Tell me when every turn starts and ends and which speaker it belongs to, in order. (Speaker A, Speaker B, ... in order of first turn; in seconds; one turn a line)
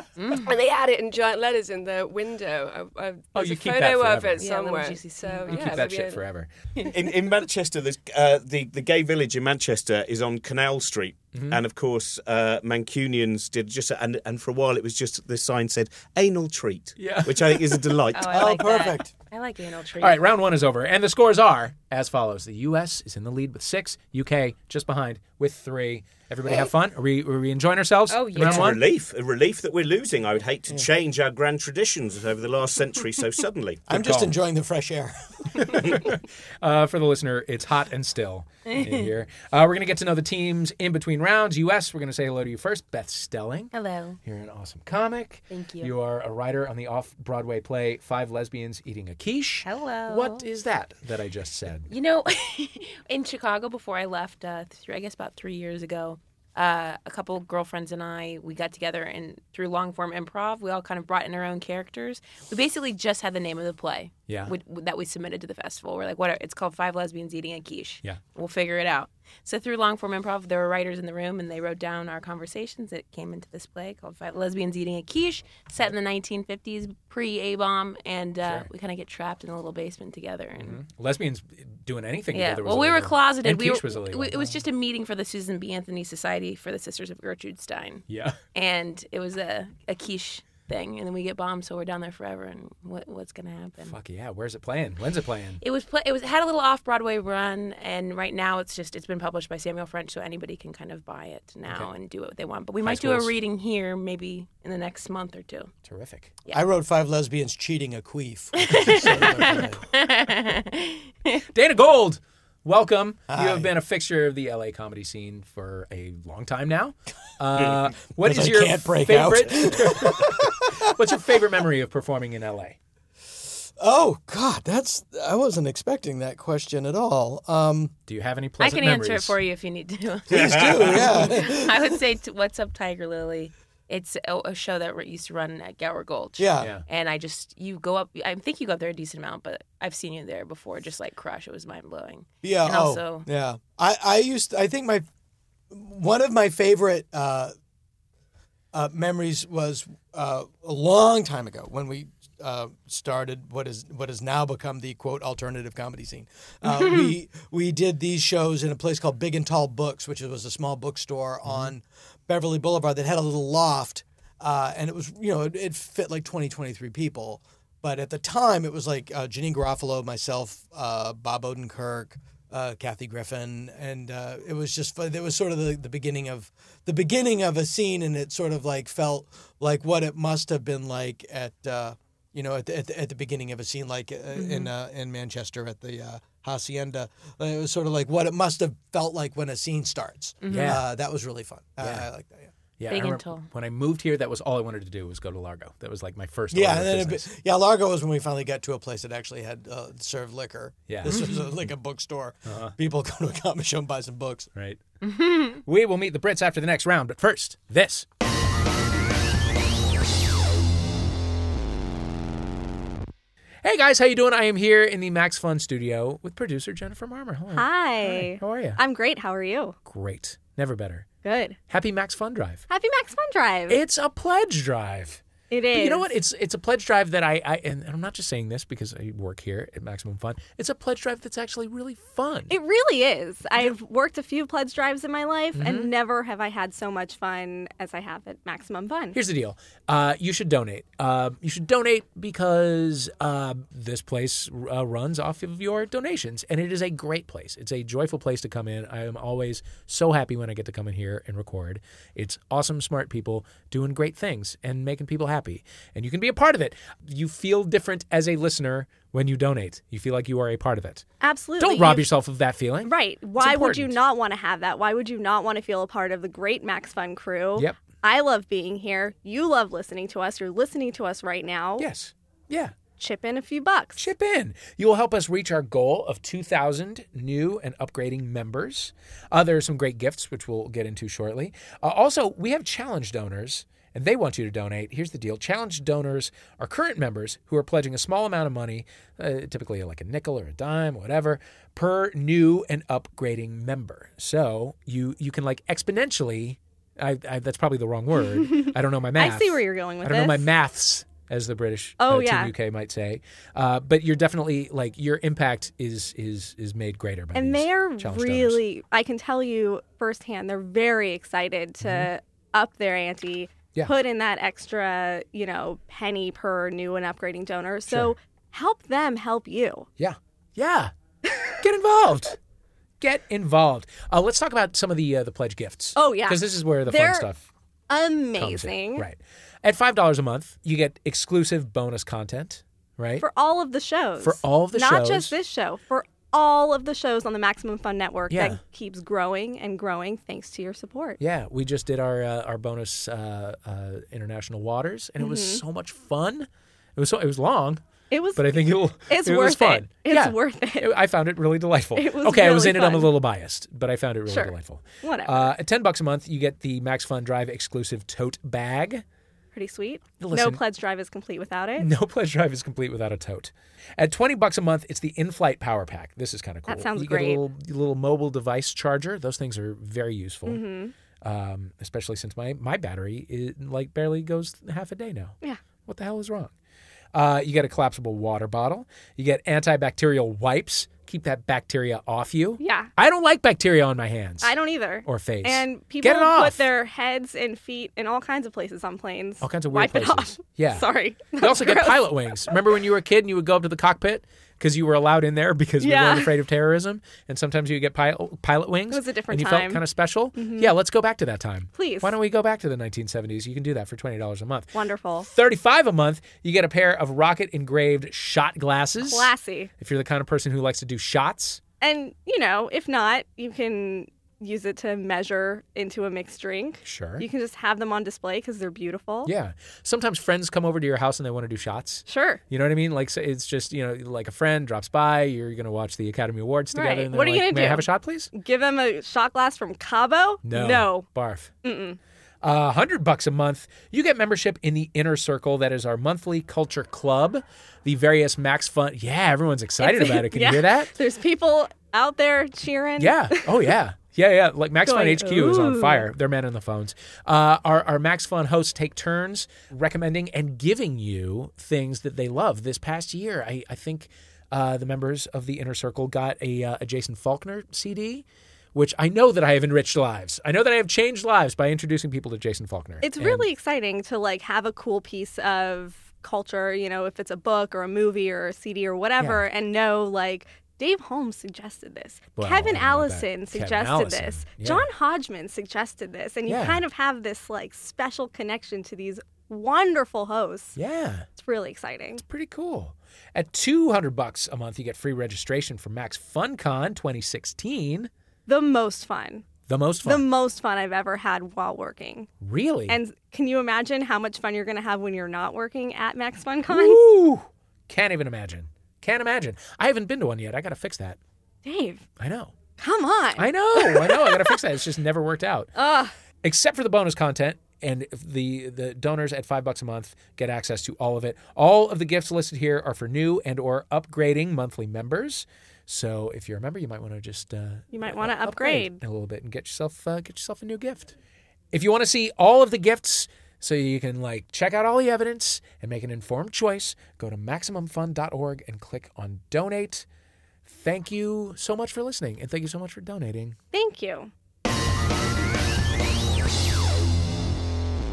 Speaker A: 0.2-0.5
Speaker B: 0.3-6.2
Speaker C: 3.3-4.4
Speaker A: 4.4-5.9
Speaker C: 5.5-6.5
Speaker D: 6.9-18.4
Speaker C: 11.3-11.6
Speaker C: 17.0-18.0
Speaker A: 18.1-20.2
Speaker E: 18.3-19.1
Speaker C: 20.0-28.8
Speaker A: 28.1-28.8
Speaker D: 28.3-33.8
Speaker E: 33.9-35.8
Speaker C: 33.9-34.4
Speaker C: 35.6-43.7
Speaker A: 38.7-39.1
Speaker A: 43.7-44.2
Speaker C: 44.2-51.9
Speaker A: 45.5-45.9
Speaker A: 49.6-50.5
Speaker A: 51.9-80.8
Speaker C: 64.3-64.5
Speaker C: 78.4-78.7
Speaker C: 80.6-84.6
Speaker A: 82.3-94.0
Speaker C: 88.1-88.4
Speaker C: 93.8-95.6
Speaker A: 95.6-105.7
Speaker C: 101.7-101.9
Speaker C: 102.8-103.3
Speaker C: 105.8-106.3
Speaker E: 106.5-109.8
Speaker A: 108.6-111.4
Speaker C: 111.5-122.8
Speaker E: 113.3-113.7
Speaker E: 118.2-120.8
Speaker E: 123.8-128.0
Speaker C: 128.1-129.4
Speaker A: 128.6-143.3
Speaker D: 130.3-131.3
Speaker E: 130.3-132.0
Speaker E: 136.4-136.7
Speaker E: 142.4-145.1
Speaker E: 145.7-147.5
Speaker E: 148.7-192.5
Speaker C: 161.5-161.7
Speaker A: 184.3-184.7
Speaker A: 190.4-190.8
Speaker C: 190.5-190.8
Speaker C: 191.8-192.1
Speaker C: 192.8-197.3
Speaker A: 192.9-193.5
Speaker E: 196.5-204.5
Speaker C: 200.9-201.3
Speaker C: 202.5-202.8
Speaker C: 204.6-204.8
Speaker A: 205.1-205.6
Speaker C: 205.5-208.1
Speaker C: 213.6-218.8
Speaker F: 217.5-219.8
Speaker C: 219.8-221.1
Speaker F: 221.2-221.6
Speaker C: 221.7-222.6
Speaker F: 222.7-223.8
Speaker C: 223.7-225.2
Speaker F: 225.5-226.1
Speaker C: 225.7-232.6
Speaker F: 232.5-239.2
Speaker C: 235.6-235.9
Speaker C: 239.1-261.1
Speaker F: 261.2-262.1
Speaker C: 261.6-264.0
Speaker F: 262.8-271.9
Speaker C: 271.8-272.8
Speaker F: 273.0-274.1
Speaker C: 274.0-308.6
Speaker F: 298.4-300.5
Speaker F: 302.0-302.5
Speaker F: 307.4-319.9
Speaker C: 311.8-312.1
Speaker C: 317.9-318.1
Speaker C: 320.0-320.9
Speaker C: 321.6-322.4
Speaker C: 323.0-327.4
Speaker F: 326.0-327.3
Speaker F: 327.9-329.1
Speaker C: 328.4-333.2
Speaker F: 333.2-341.2
Speaker C: 334.2-335.3
Speaker C: 338.3-338.6
Speaker C: 341.2-347.8
Speaker F: 345.2-345.6
Speaker F: 348.1-350.9
Speaker C: 348.4-359.0
Speaker F: 352.0-353.1
Speaker F: 354.3-355.5
Speaker F: 359.5-361.9
Speaker C: 360.2-360.6
Speaker C: 361.8-370.6
Speaker F: 366.7-367.4
Speaker F: 370.5-370.9
Speaker C: 371.2-376.5
Speaker C: 377.1-384.5
Speaker F: 382.6-382.9
Speaker F: 384.4-392.6
Speaker C: 385.0-386.7
Speaker C: 389.4-411.6
Speaker F: 395.8-396.3
Speaker F: 398.9-399.8
Speaker F: 400.4-400.7
Speaker F: 401.8-402.1
Speaker F: 404.7-405.3
Speaker F: 409.0-409.7
Speaker F: 411.8-419.3
Speaker C: 416.8-417.3
Speaker C: 419.2-428.3
Speaker F: 422.1-422.4
Speaker F: 426.7-431.1
Speaker C: 430.4-431.5
Speaker F: 431.6-432.0
Speaker C: 432.4-440.9
Speaker F: 439.8-443.7
Speaker C: 443.0-463.5
Speaker F: 444.9-446.1
Speaker F: 463.0-480.8
Speaker C: 469.2-469.4
Speaker C: 472.4-474.9
Speaker C: 476.5-476.8
Speaker C: 480.8-481.3
Speaker F: 481.4-482.2
Speaker C: 482.2-488.1
Speaker F: 488.5-489.5
Speaker C: 489.7-490.3
Speaker F: 490.0-492.3
Speaker C: 492.4-493.0
Speaker F: 492.9-497.0
Speaker C: 496.7-501.2
Speaker F: 501.6-502.0
Speaker C: 502.2-502.5
Speaker F: 502.8-504.6
Speaker C: 503.4-505.7
Speaker F: 505.8-506.1
Speaker C: 506.4-521.1
Speaker F: 517.9-519.0
Speaker C: 521.7-530.1
Speaker C: 530.7-533.6
Speaker F: 533.7-534.3